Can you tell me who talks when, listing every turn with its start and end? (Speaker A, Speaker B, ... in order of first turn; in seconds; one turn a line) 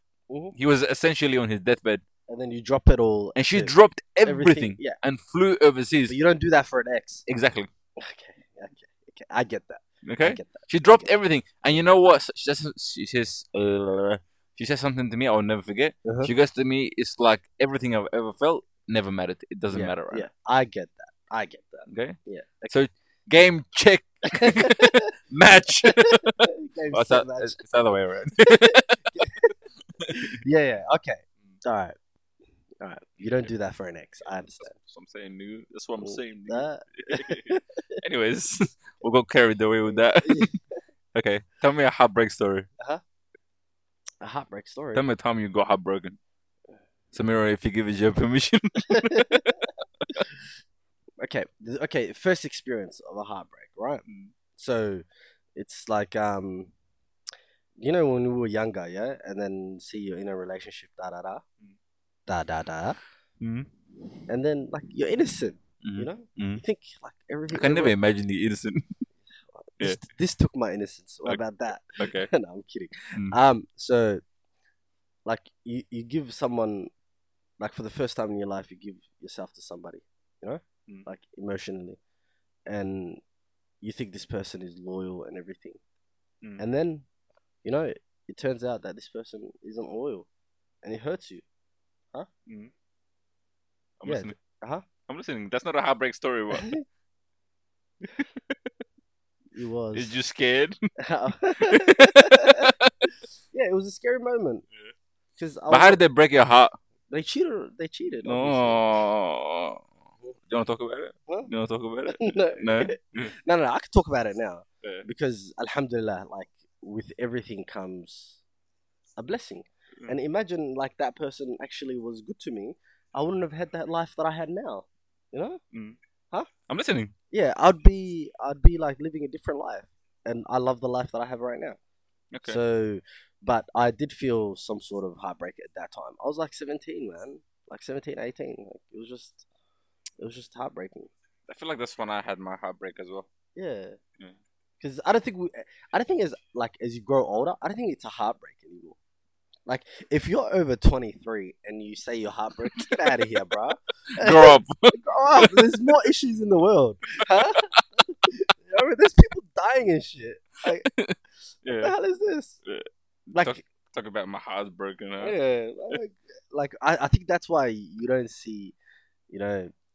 Speaker A: 0.3-0.6
Speaker B: 0.5-2.0
Speaker A: 2.3-3.7
Speaker B: 3.4-6.2
Speaker A: 4.2-5.0
Speaker A: 6.1-7.2
Speaker B: 7.3-7.7
Speaker A: 8.0-11.1
Speaker B: 10.0-20.3
Speaker A: 16.1-16.3
Speaker A: 19.7-22.7
Speaker B: 21.9-30.3
Speaker A: 24.3-25.1
Speaker A: 25.8-27.6
Speaker A: 28.5-29.5
Speaker A: 30.1-32.0
Speaker A: 32.8-34.8
Speaker B: 34.6-40.5
Speaker A: 36.0-38.0
Speaker A: 40.0-40.6
Speaker B: 41.1-42.7
Speaker A: 44.2-45.0
Speaker B: 44.9-46.2
Speaker B: 47.1-49.5
Speaker A: 48.9-49.7
Speaker A: 51.2-54.0
Speaker B: 54.1-54.3
Speaker A: 54.6-56.7
Speaker A: 57.8-61.4
Speaker A: 62.3-63.0
Speaker B: 63.4-63.7
Speaker A: 64.3-68.0
Speaker B: 65.8-66.6
Speaker B: 67.5-69.0
Speaker A: 69.5-74.2
Speaker B: 72.0-72.3
Speaker A: 75.2-76.9
Speaker A: 77.6-82.0
Speaker A: 82.7-83.2
Speaker A: 83.8-85.8
Speaker A: 86.6-87.1
Speaker A: 87.6-90.3
Speaker A: 90.8-91.4
Speaker B: 94.0-94.3
Speaker A: 94.1-94.8
Speaker B: 95.1-96.7
Speaker A: 96.5-96.8
Speaker B: 98.1-98.5
Speaker A: 99.5-100.1
Speaker B: 99.9-100.8
Speaker A: 101.0-102.7
Speaker B: 101.6-103.1
Speaker A: 103.5-104.7
Speaker A: 105.4-106.0
Speaker B: 105.7-106.8
Speaker A: 107.1-108.8
Speaker B: 108.2-109.9
Speaker B: 110.5-113.3
Speaker A: 112.1-118.4
Speaker A: 119.2-125.6
Speaker B: 125.7-126.0
Speaker B: 126.7-127.1
Speaker A: 127.3-131.8
Speaker B: 132.3-132.6
Speaker A: 132.4-139.4
Speaker A: 140.2-141.1
Speaker B: 141.5-143.3
Speaker A: 143.6-144.0
Speaker A: 144.8-149.0
Speaker A: 149.7-160.9
Speaker B: 152.7-153.0
Speaker B: 154.2-155.7
Speaker B: 157.2-157.8
Speaker B: 160.9-161.9
Speaker A: 161.7-162.6
Speaker B: 162.7-165.3
Speaker A: 163.3-163.6
Speaker A: 165.2-168.8
Speaker A: 169.3-169.7